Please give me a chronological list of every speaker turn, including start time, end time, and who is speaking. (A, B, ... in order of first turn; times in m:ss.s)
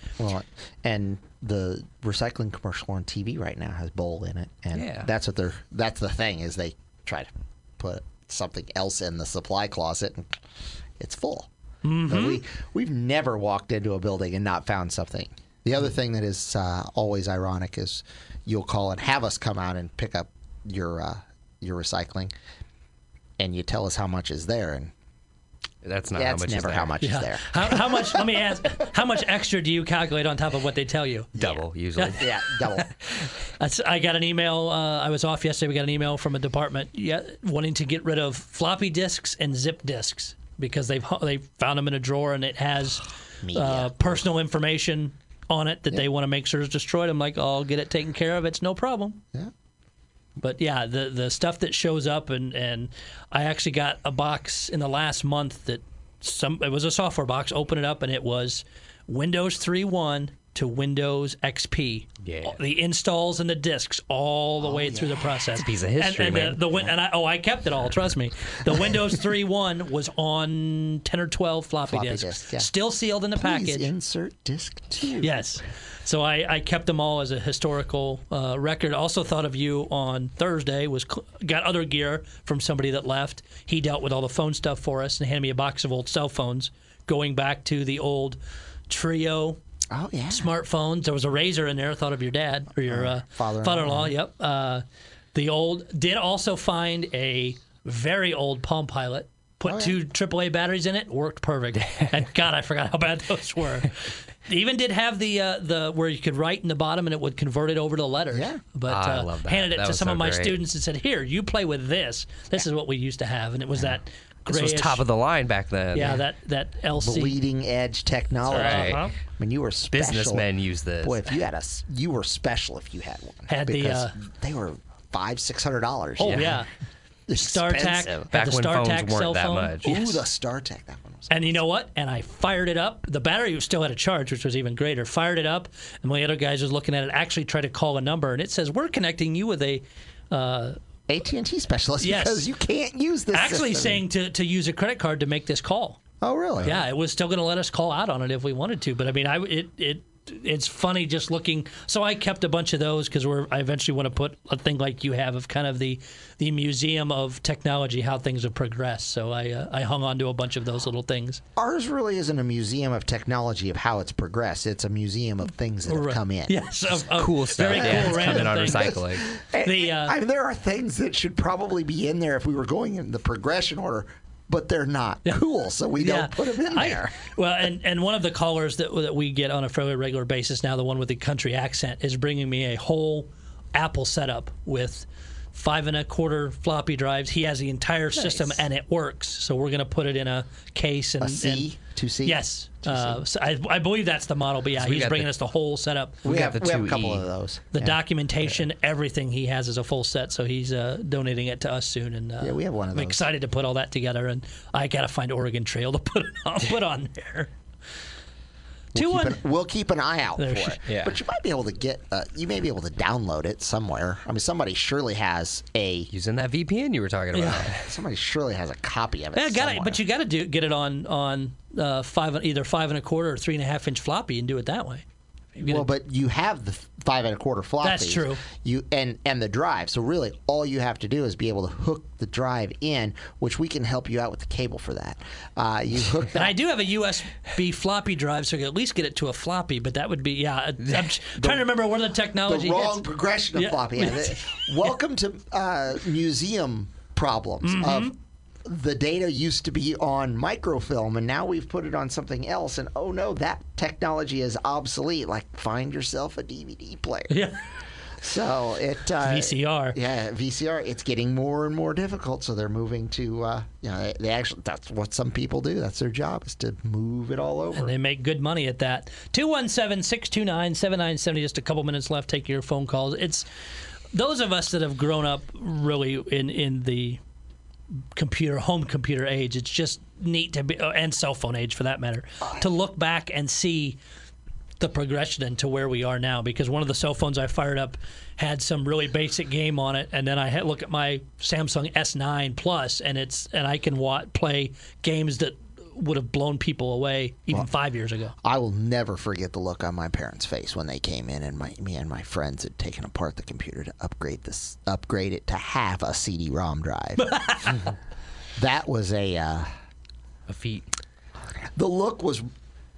0:00.2-0:10.4 A
0:04.7-0:05.1 B
0:11.0-0:11.5 A
0:11.8-0:12.4 C
0:12.1-0:22.3 A
0:23.4-0:24.9 A
0:25.8-0:26.9 B
0:26.1-0:28.2 A
0:27.0-0:31.4 C
0:31.4-0:31.6 A
0:31.4-0:32.3 B
0:32.2-0:32.9 A
0:33.6-0:49.2 C
0:43.4-0:44.0 A
0:50.4-1:13.9 C
1:02.2-1:02.6 B
1:04.6-1:05.6 A
1:05.6-1:06.7 B
1:11.9-1:12.7 A
1:13.4-1:15.3 A
1:15.2-1:29.6 C
1:29.9-1:30.5 A
1:30.3-1:55.0 C
1:32.9-1:34.1 A
1:39.6-1:40.0 A
1:48.3-1:48.6 A
1:48.9-1:50.6 B
1:54.5-1:56.2 B
1:55.9-1:57.4 C
1:57.0-2:00.5 A
1:58.5-1:59.1 B
1:58.5-1:59.1 C
1:59.9-2:01.3 B
2:01.0-2:06.6 A
2:03.5-2:04.2 C
2:06.2-2:06.7 C
2:06.2-2:06.6 B
2:07.3-2:08.3 A
2:07.4-2:10.2 C
2:08.3-2:10.0 B
2:09.8-2:11.6 A
2:11.3-2:20.8 C
2:21.1-2:24.0 A
2:22.0-2:22.4 C
2:23.3-2:26.0 C
2:26.2-2:26.8 A
2:26.6-2:41.4 C
2:41.6-2:46.6 A
2:45.9-2:50.2 C
2:47.1-2:49.2 B
2:47.7-2:57.1 A
2:56.0-3:11.7 C
3:08.2-3:08.6 B
3:11.2-3:13.2 A
3:12.2-3:16.4 C
3:14.8-3:15.3 B
3:16.2-3:17.2 B
3:16.2-3:18.0 A
3:17.7-3:27.5 C
3:22.4-3:23.3 A
3:28.9-3:29.4 C
3:28.9-3:36.1 A
3:30.4-3:30.8 C
3:30.9-3:31.2 B
3:36.1-3:37.9 B
3:37.3-3:37.7 C
3:37.5-3:40.0 A
3:39.4-3:45.0 C
3:45.6-3:45.9 C
3:45.6-3:56.6 A
3:47.8-3:48.4 C
3:56.3-4:03.0 C
4:01.4-4:01.8 A
4:02.4-4:17.4 A
4:03.6-4:04.7 C
4:07.6-4:08.1 C
4:17.3-4:17.6 C
4:18.2-4:27.9 A
4:19.2-4:20.0 C
4:27.7-4:33.5 C
4:34.1-4:37.2 C
4:38.1-4:44.0 C
4:44.8-4:58.3 C
4:58.4-5:07.4 A
5:07.2-5:07.8 C
5:08.6-5:09.7 A
5:10.5-5:10.8 B
5:11.7-5:12.5 A